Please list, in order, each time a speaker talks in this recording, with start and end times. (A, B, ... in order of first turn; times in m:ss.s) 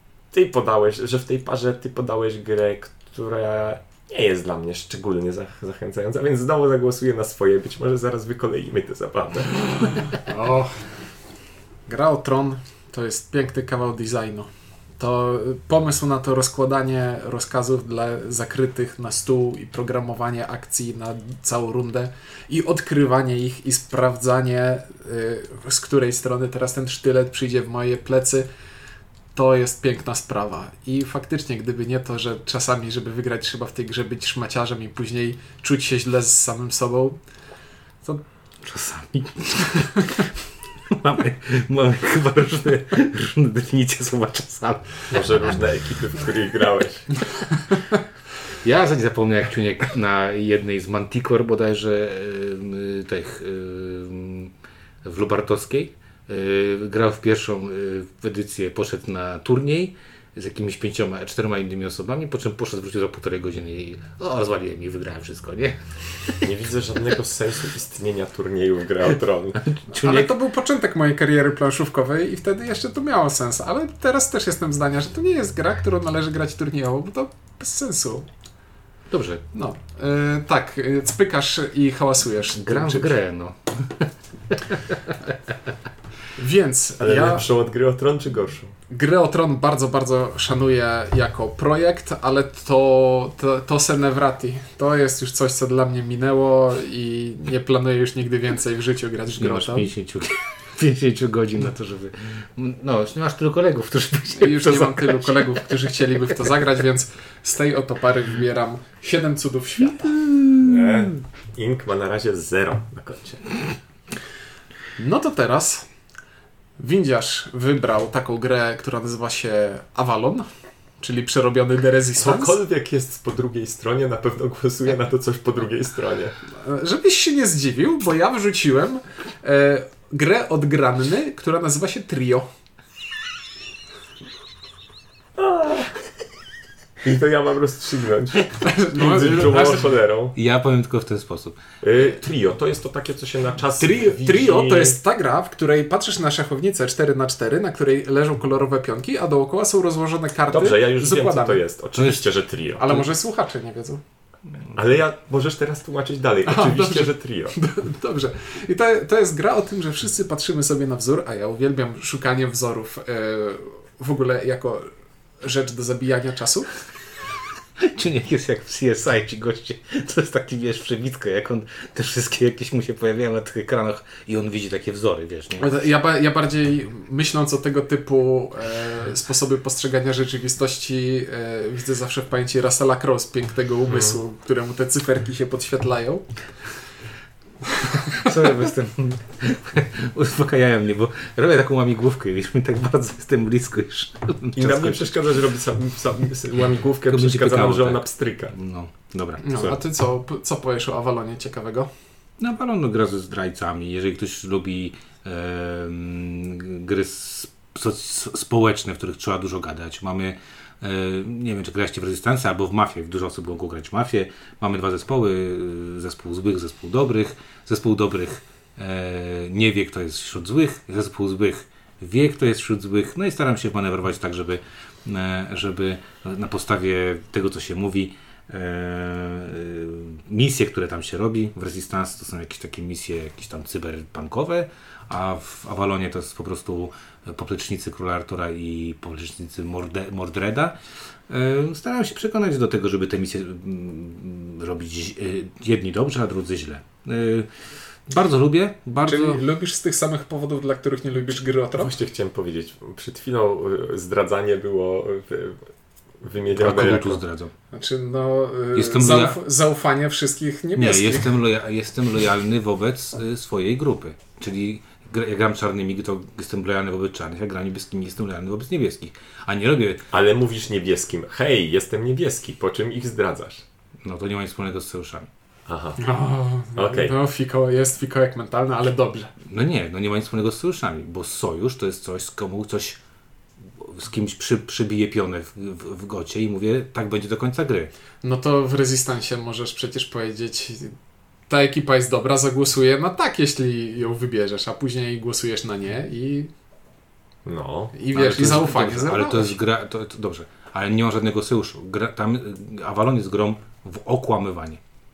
0:00.3-0:10.0 A
0:09.6-0:10.7 B
0:11.9-0:28.4 B
0:29.3-0:37.2 B
0:38.6-0:40.3 C
0:40.9-0:45.2 C
0:45.1-0:47.1 A
0:48.6-0:54.5 C
0:55.0-1:06.5 C
1:06.4-1:09.6 A
1:09.6-1:10.3 C
1:10.0-1:18.3 B
1:19.1-1:19.4 C
1:19.5-1:23.1 B
1:22.5-1:25.5 C
1:26.4-1:27.4 B
1:27.0-1:28.7 A
1:28.9-1:39.9 B
1:39.4-1:45.6 C
1:44.4-1:50.2 B
1:50.2-1:51.0 C
1:50.6-1:53.6 A
1:55.0-1:55.8 B
1:56.8-2:00.4 B
2:01.0-2:02.6 B
2:02.2-2:06.4 A
2:06.6-2:12.5 B
2:15.4-2:15.9 A
2:17.0-2:20.4 A
2:18.6-2:19.9 B
2:20.3-2:21.6 C
2:21.8-2:25.0 A
2:23.8-2:31.6 B
2:30.5-2:33.0 A
2:32.0-2:32.2 C
2:32.8-2:34.0 B
2:34.7-2:37.6 A
2:36.4-2:44.9 B
2:45.4-2:46.7 B
2:47.8-2:55.7 C
2:55.6-3:06.2 B
3:03.9-3:04.2 A
3:08.0-3:15.2 C
3:14.6-3:18.5 A
3:17.1-3:19.8 C
3:19.4-3:21.9 B
3:22.4-4:00.8 C
4:01.3-4:07.5 C
4:08.1-4:09.4 C
4:09.0-4:11.9 B
4:11.7-4:15.6 A
4:16.2-4:17.2 A
4:16.5-4:17.5 C
4:17.7-4:21.4 B
4:18.7-4:19.4 C
4:20.8-4:30.0 C
4:30.1-4:33.6 A
4:34.0-4:35.3 C
4:35.7-4:36.0 A
4:36.0-4:39.3 B
4:36.8-4:37.1 A
4:39.4-4:43.0 C
4:43.8-4:47.9 C
4:48.2-4:50.9 B
4:51.5-4:56.5 B
4:57.4-4:58.0 A
4:57.9-4:59.6 B
4:58.1-5:04.8 C